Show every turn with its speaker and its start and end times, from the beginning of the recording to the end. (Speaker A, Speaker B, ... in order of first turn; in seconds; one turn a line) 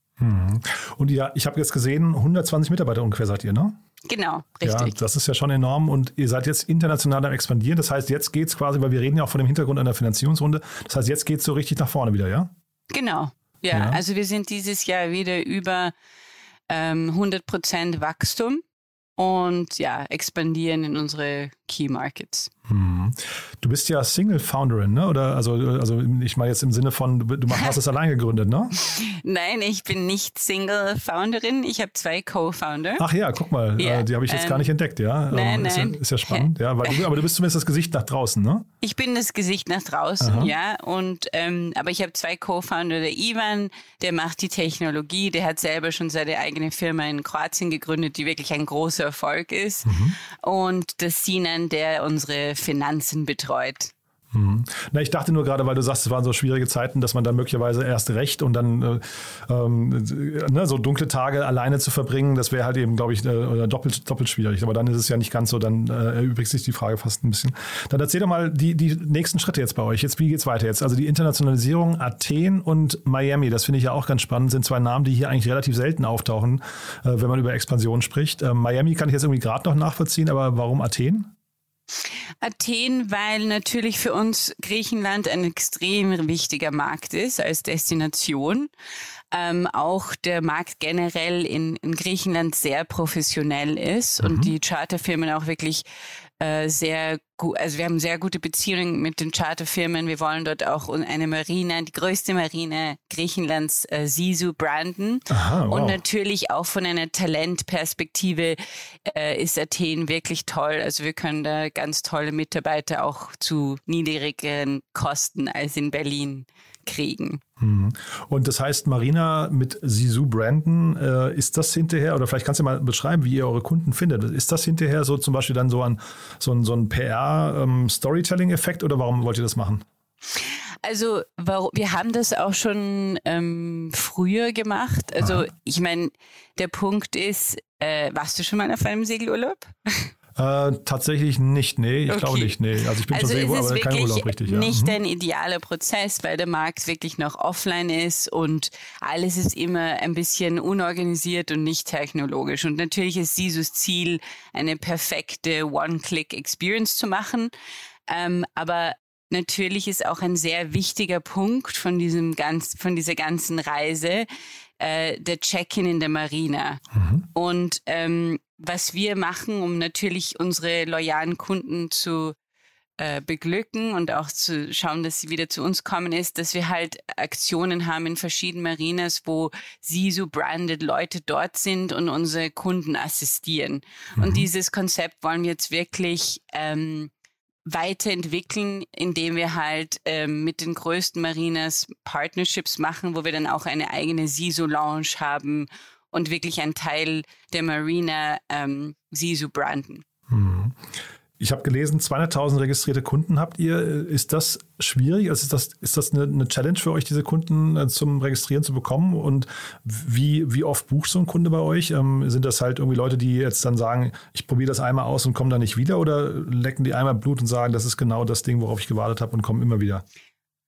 Speaker A: 0.2-3.8
Speaker B: 4.1-5.0
Speaker A: 4.6-12.5
Speaker B: 12.9-15.9
Speaker A: 13.7-14.0
Speaker B: 16.7-18.6
Speaker B: 19.2-22.5
Speaker A: 22.7-28.8
Speaker B: 28.8-33.1
Speaker A: 33.0-38.7
Speaker B: 33.8-34.7
Speaker B: 35.3-37.1
Speaker B: 38.8-53.9
Speaker A: 40.2-40.5
Speaker A: 49.9-50.2
Speaker A: 54.3-81.3
Speaker B: 82.4-88.7
Speaker B: 89.3-95.8
Speaker A: 94.2-94.5
Speaker B: 96.4-117.4
Speaker A: 105.3-106.0
Speaker A: 117.6-129.8
Speaker B: 130.4-140.1
Speaker A: 135.2-135.4
Speaker A: 140.4-145.0
Speaker B: 142.1-142.6
Speaker B: 143.1-157.5
Speaker B: 158.1-164.3
Speaker B: 164.8-166.8
Speaker A: 166.9-167.3
Speaker B: 167.3-172.4
Speaker B: 173.0-187.1
Speaker A: 184.2-184.5
Speaker B: 187.7-200.0
Speaker A: 200.3-220.1